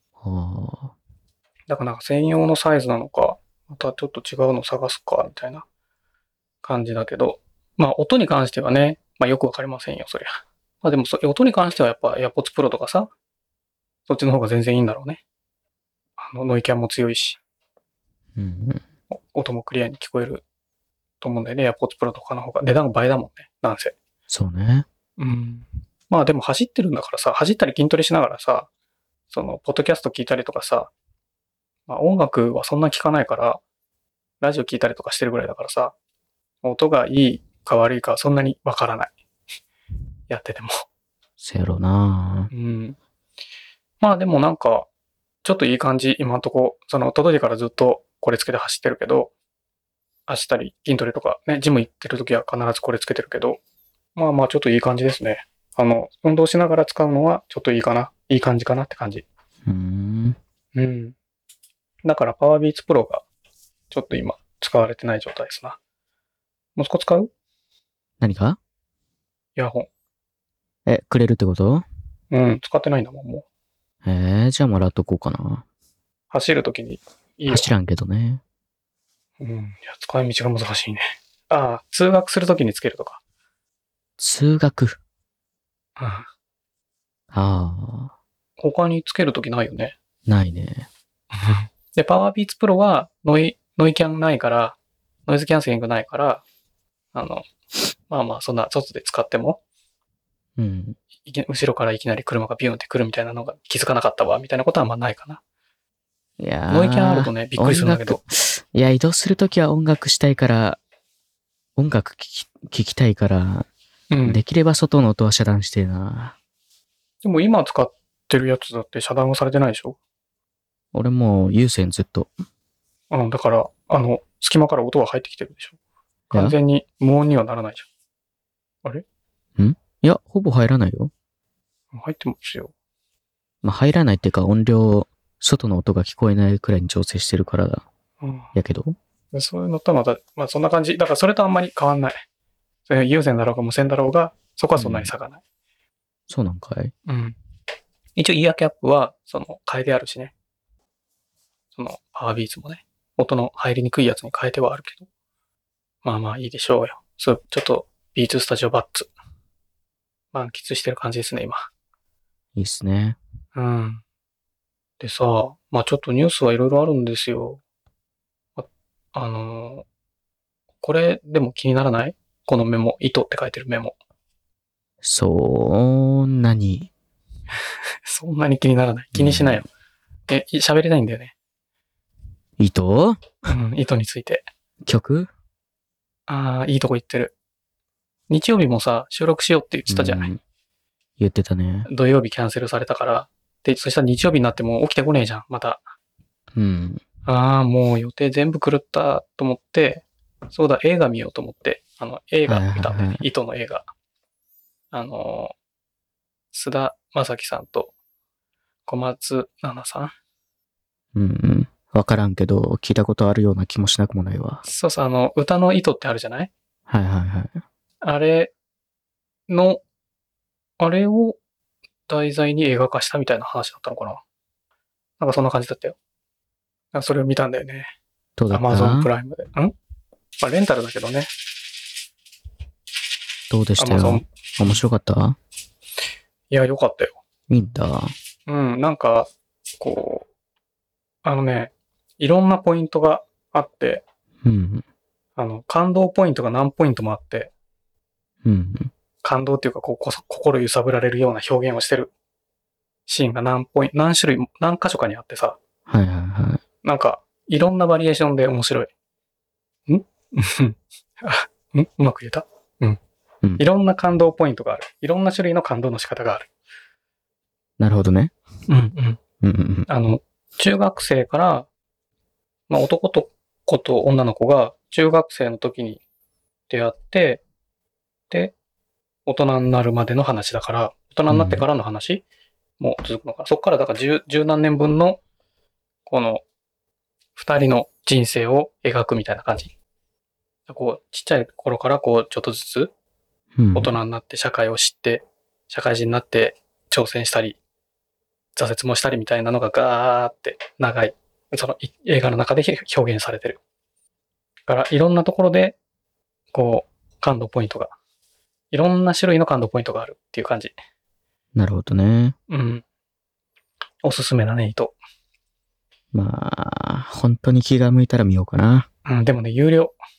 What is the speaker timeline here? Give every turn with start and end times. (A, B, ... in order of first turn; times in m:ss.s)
0:00.2-0:00.9 A
0:01.7-0:05.6 B
0:06.6-0:13.1 B
0:14.1-0:15.2 B
0:16.2-0:17.4 B
0:18.4-0:18.8 A
0:19.1-0:20.4 B
0:21.2-0:23.9 B
0:24.3-0:24.8 A
0:25.2-0:28.7 B
0:29.3-0:30.9 B
0:31.9-0:33.6 B
0:34.4-0:35.9 B
0:36.6-0:39.1 B
0:40.3-0:40.8 B
0:41.4-0:42.5 A
0:42.5-0:43.0 B
0:44.0-0:44.9 B
0:45.4-0:49.3 B
0:50.3-0:53.6 B
0:54.1-0:59.2 B
0:59.6-1:00.4 A
1:00.7-1:01.1 B
1:02.0-1:03.2 B
1:03.9-1:05.8 B
1:06.8-1:07.3 B
1:08.2-1:08.6 A
1:09.6-1:09.9 B
1:10.8-1:11.8 A
1:12.3-1:13.4 B
1:14.0-1:15.6 A
1:16.3-1:17.7 B
1:17.5-1:18.4 A
1:19.4-1:23.2 B
1:24.2-1:25.0 A
1:26.0-1:26.3 B
1:27.3-1:28.1 A
1:28.6-1:29.9 B
1:30.3-1:30.9 A
1:31.4-1:36.4 B
1:37.1-1:37.4 B
1:38.1-1:39.6 B
1:40.6-1:41.0 A
1:41.2-1:45.4 B
1:46.4-1:50.8 A
1:46.7-1:48.2 B
1:51.8-1:53.7 A
1:54.1-1:54.4 B
1:54.2-1:56.4 A
1:57.2-2:00.0 B
2:00.9-2:02.3 A
2:03.1-2:05.8 B
2:06.3-2:07.9 B
2:06.3-2:06.6 A
2:09.6-2:11.1 A
2:11.9-2:12.7 B
2:13.6-2:17.8 A
2:18.2-2:18.5 B
2:18.5-2:19.0 A
2:19.3-2:22.2 B
2:22.9-2:25.4 B
2:24.8-2:25.1 A
2:26.3-2:26.9 A
2:27.1-2:27.4 B
2:28.2-2:30.3 B
2:31.8-2:35.0 B
2:36.0-2:39.1 B
2:40.3-2:41.6 B
2:42.6-2:43.2 A
2:43.6-2:44.0 B
2:45.0-2:47.6 B
2:48.6-2:49.8 B
2:50.8-2:54.0 B
2:55.0-2:56.9 A
2:58.0-2:59.7 B
2:59.1-2:59.6 A
3:00.3-3:01.3 B
3:02.6-3:03.4 A
3:03.4-3:04.4 B
3:04.8-3:05.3 A
3:06.3-3:07.3 B
3:08.3-3:10.3 B
3:09.9-3:10.4 A
3:11.2-3:11.9 A
3:11.9-3:15.8 B
3:16.5-3:17.0 A
3:17.2-3:23.8 B
3:22.5-3:23.2 A
3:24.9-3:25.5 B
3:26.5-3:27.9 B
3:28.8-3:30.1 B
3:31.1-3:34.6 A
3:34.6-3:36.5 B
3:36.9-3:37.6 A
3:38.0-3:38.5 B
3:39.5-3:39.8 B
3:40.8-3:41.4 B
3:42.1-3:44.2 B
3:45.2-3:46.0 B
3:46.9-3:47.9 B
3:48.4-3:49.1 A
3:48.5-3:49.7 B
3:50.4-3:51.3 B
3:53.5-3:55.4 A
3:53.8-3:54.8 B
3:56.5-3:57.2 B
3:57.5-3:58.1 A
3:58.5-3:59.3 B
3:59.8-4:00.3 B
4:01.2-4:04.0 B
4:04.4-4:04.8 A
4:05.4-4:07.5 B
4:08.4-4:08.9 A
4:09.2-4:12.1 B
4:13.1-4:15.6 B
4:15.9-4:16.6 A
4:16.8-4:18.9 B
4:19.9-4:23.0 B
4:23.6-4:26.5 B
4:27.8-4:28.3 A
4:28.7-4:29.2 B
4:29.4-4:29.9 A
4:29.9-4:31.7 B
4:32.7-4:36.0 B
4:36.7-4:37.4 B
4:39.2-4:42.2 B
4:41.3-4:41.6 A
4:42.8-4:45.2 B
4:46.0-4:46.4 B
4:47.4-4:49.7 B
4:50.7-4:52.9 B
4:53.6-4:53.9 A
4:53.7-4:57.6 B
4:58.6-5:03.6 B
5:04.7-5:05.8 B
5:06.5-5:07.9 B
5:08.7-5:10.7 B
5:11.5-5:12.3 A
5:12.5-5:12.8 B
5:14.0-5:14.9 B
5:16.1-5:18.9 A
5:19.0-5:20.0 B